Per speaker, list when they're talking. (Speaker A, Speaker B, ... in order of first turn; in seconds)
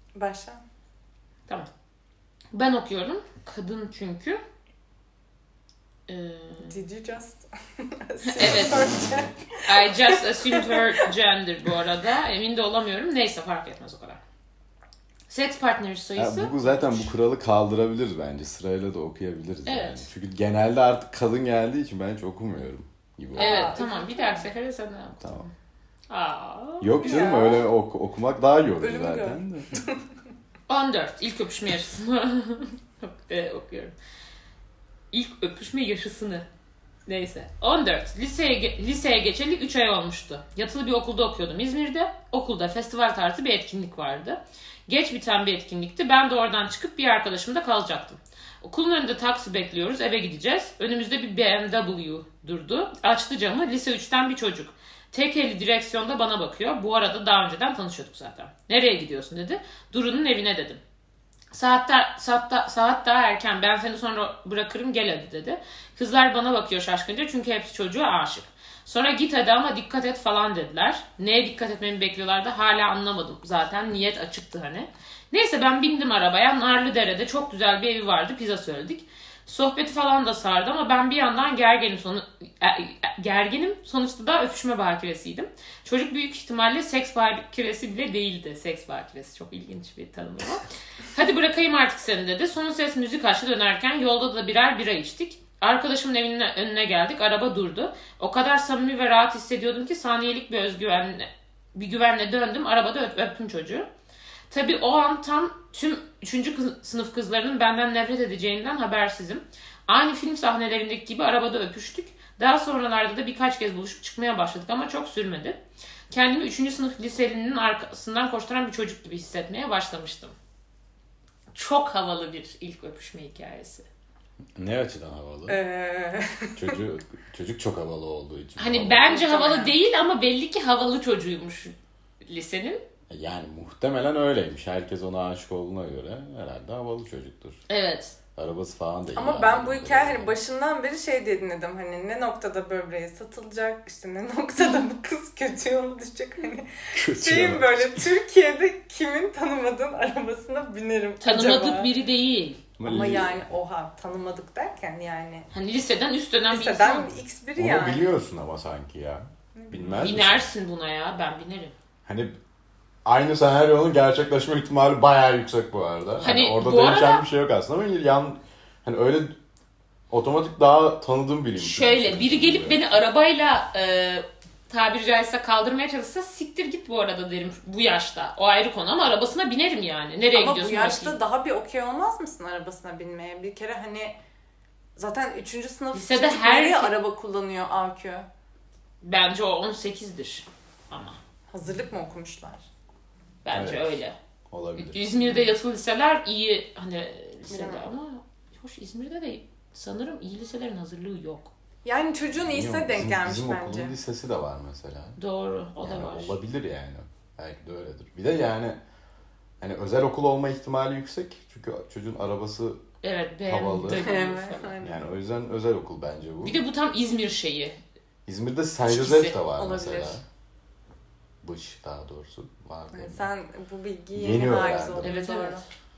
Speaker A: 0.1-0.6, 6.6-10.8, 23.3-24.5, 27.0-27.7, 28.8-30.0, 125.5-126.6, 129.1-129.8, 139.1-151.9, 152.8-155.5, 156.5-158.1, 159.5-160.2, 180.3-184.2, 184.9-188.2, 191.5-192.6, 195.2-195.5, 197.5-197.9, 201.8-203.9, 213.9-215.0, 219.6-220.2, 222.9-225.6
Speaker B: 2.5-4.4, 6.1-6.8, 8.2-8.9, 9.6-14.2, 15.3-17.1, 19.6-20.1, 23.4-25.5, 26.1-27.2, 30.7-33.9, 35.1-36.5, 37.0-60.8, 61.5-103.9, 104.5-120.3, 121.5-123.8, 128.6-131.7, 132.2-132.8, 137.7-138.2, 151.2-152.6, 155.5-157.1, 160.0-161.7, 166.2-167.2, 171.6-181.2, 185.9-186.9, 189.0-191.2, 193.4-194.2, 194.8-201.5, 205.2-206.4, 213.0-214.8, 216.4-217.8, 218.8-219.3, 225.0-225.6
Speaker C: 8.4-9.3, 16.1-23.8, 25.2-25.4, 26.8-29.7, 124.5-125.6, 126.5-129.1, 133.1-137.6, 138.3-140.3, 146.9-148.1, 152.8-153.5, 157.6-160.5, 162.0-162.4, 163.0-169.4, 170.1-172.8, 193.5-194.0, 194.5-195.1, 202.3-205.2, 205.8-208.8, 209.6-212.8, 213.5-214.1, 214.8-216.6, 218.2-220.2, 221.4-223.3, 224.1-225.1